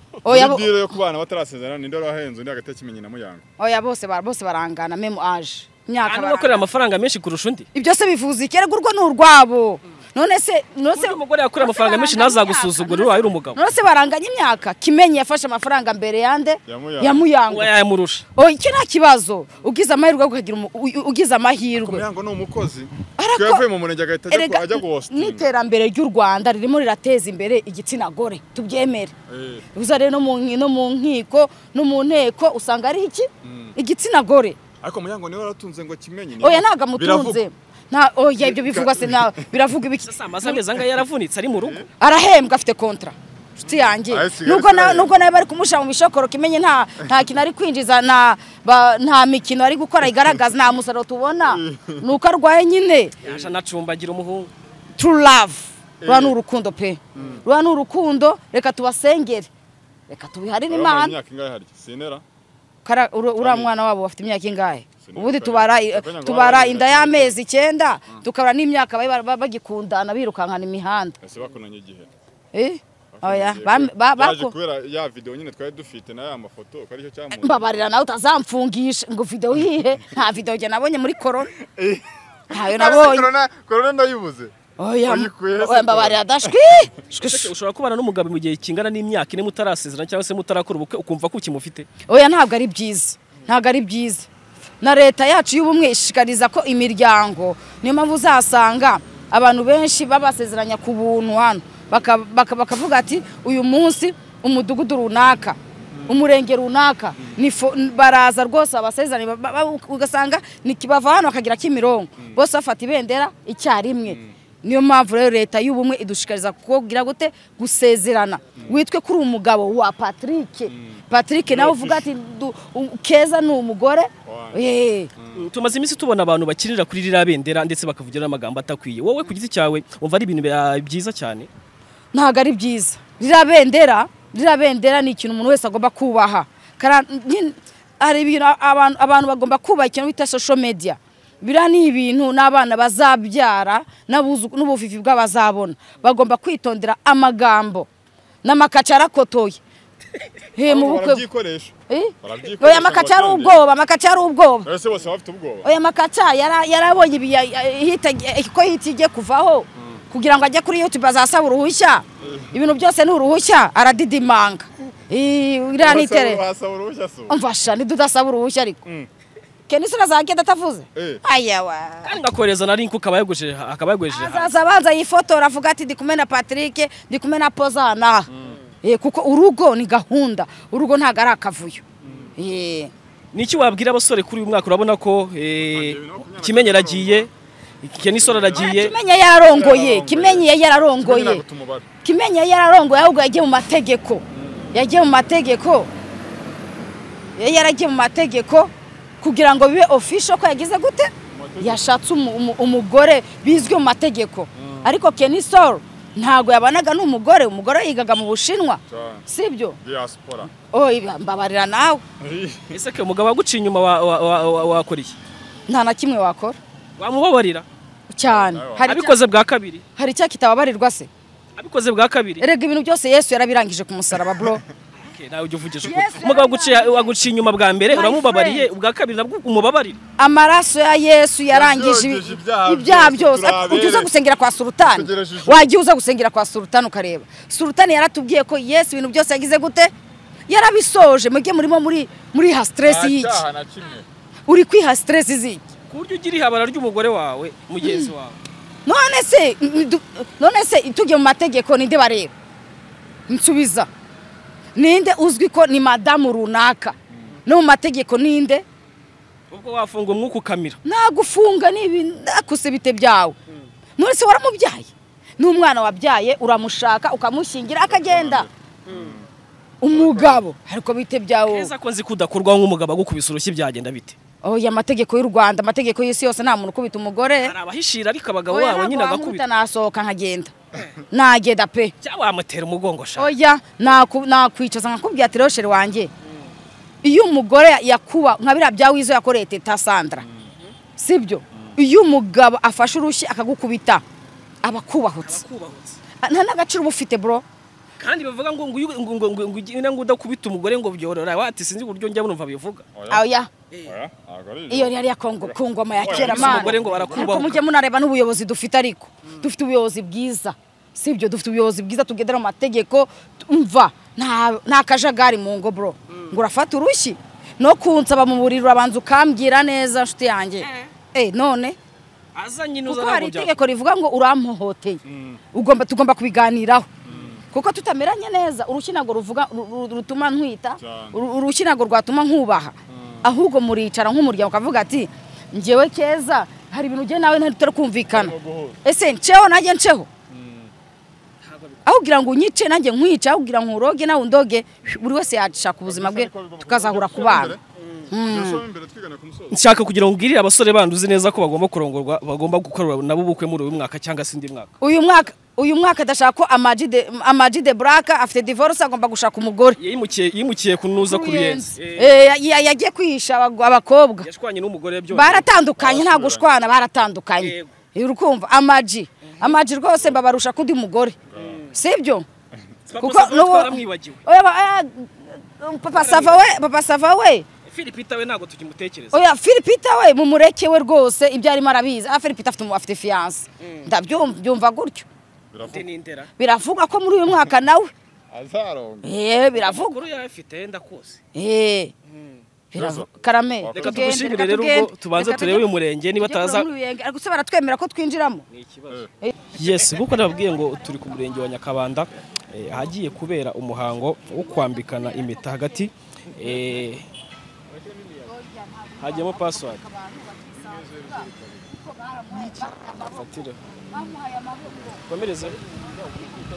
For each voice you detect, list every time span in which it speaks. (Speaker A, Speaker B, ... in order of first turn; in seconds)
Speaker A: 0.2-3.4, 16.6-17.2, 21.8-25.5, 29.3-29.6, 33.4-33.7, 34.8-37.4, 38.4-39.5, 41.6-41.9, 44.0-45.1, 51.5-52.1, 53.2-53.5, 56.0-56.4, 57.1-57.4, 60.7-62.2, 63.4-63.7, 65.0-67.4, 71.2-72.1, 73.1-77.7, 81.6-84.5, 85.1-86.6, 105.9-106.2, 114.0-114.3, 118.6-118.8, 120.7-122.1, 124.2-124.6, 125.2-125.5, 150.7-153.6, 154.6-155.7, 162.2-162.6, 165.8-167.4, 170.9-171.2, 178.3-178.6, 182.0-182.3, 185.6-187.3, 188.1-190.5, 191.0-191.8, 194.4-194.6, 201.3-201.8, 204.6-204.9, 208.9-209.2, 209.8-210.5, 212.2-212.8, 218.3-218.9, 231.5-234.1, 234.8-235.7, 242.8-244.1, 267.8-269.2, 270.0-270.3, 302.9-303.2, 303.8-307.3, 325.0-325.4, 327.1-327.4, 330.8-331.2, 332.9-333.3, 338.1-338.8, 340.3-340.7, 345.9-347.6, 348.2-349.6, 365.8-366.4, 371.3-371.6, 385.5-385.9, 388.3-389.1, 392.7-393.1, 393.6-394.2, 410.8-411.3
Speaker B: 0.2-0.9, 3.6-6.6, 7.7-17.7, 18.4-22.0, 23.2-23.6, 24.3-29.1, 29.7-34.6, 36.4-40.6, 42.0-53.1, 55.0-59.5, 60.1-61.1, 62.8-71.2, 72.5-74.5, 77.4-81.5, 82.5-83.3, 84.8-87.5, 92.1-94.3, 94.8-125.1, 132.1-147.9, 148.4-149.6, 150.6-151.2, 151.9-154.7, 155.6-166.4, 167.3-168.8, 169.7-172.2, 174.1-178.3, 178.8-181.8, 182.4-182.9, 188.5-191.4, 192.0-195.9, 197.3-209.8, 210.7-212.0, 215.7-216.6, 218.1-219.2, 220.0-221.1, 222.4-224.6, 225.8-227.1, 227.9-228.7, 230.2-239.9, 240.5-243.4, 244.5-245.6, 247.8-248.1, 248.8-252.3, 253.3-253.9, 254.7-258.6, 260.8-263.4, 264.0-268.5, 269.8-271.7, 274.4-277.5, 278.5-280.5, 281.1-281.9, 283.1-286.1, 287.0-290.2, 291.0-294.0, 294.6-295.4, 296.2-297.4, 303.1-303.5, 304.7-321.8, 322.9-325.0, 325.5-326.9, 327.5-340.1, 341.8-347.6, 348.1-348.6, 354.8-359.8, 361.0-364.3, 365.1-371.2, 371.7-372.2, 373.0-377.5, 379.1-385.1, 386.4-387.9, 389.0-390.0, 391.3-391.9, 392.7-398.4, 408.3-413.2, 413.9-415.0, 416.0-416.4
Speaker C: 6.0-7.7, 10.9-13.6, 17.5-18.2, 40.0-41.9, 53.2-54.5, 87.1-91.9, 125.3-131.5, 172.0-174.5, 183.3-187.3, 187.8-188.9, 212.7-215.2, 217.0-217.7, 218.8-219.8, 221.6-222.5, 225.0-230.0, 245.9-248.4, 259.5-260.8, 268.9-269.1, 271.4-274.1, 277.4-279.4, 282.0-283.3, 295.2-296.0, 298.0-302.9, 306.0-307.6, 320.6-320.9, 322.3-323.5, 349.5-354.7, 359.8-362.3, 364.2-365.5, 367.4-367.7, 369.3-369.6, 371.4-371.7, 372.9-374.2, 375.9-376.4, 377.6-379.2, 383.6-383.9, 385.6-386.3, 389.5-391.2, 392.1-392.4, 393.7-396.7, 398.5-407.1, 409.0-409.8, 412.3-414.0, 414.9-415.6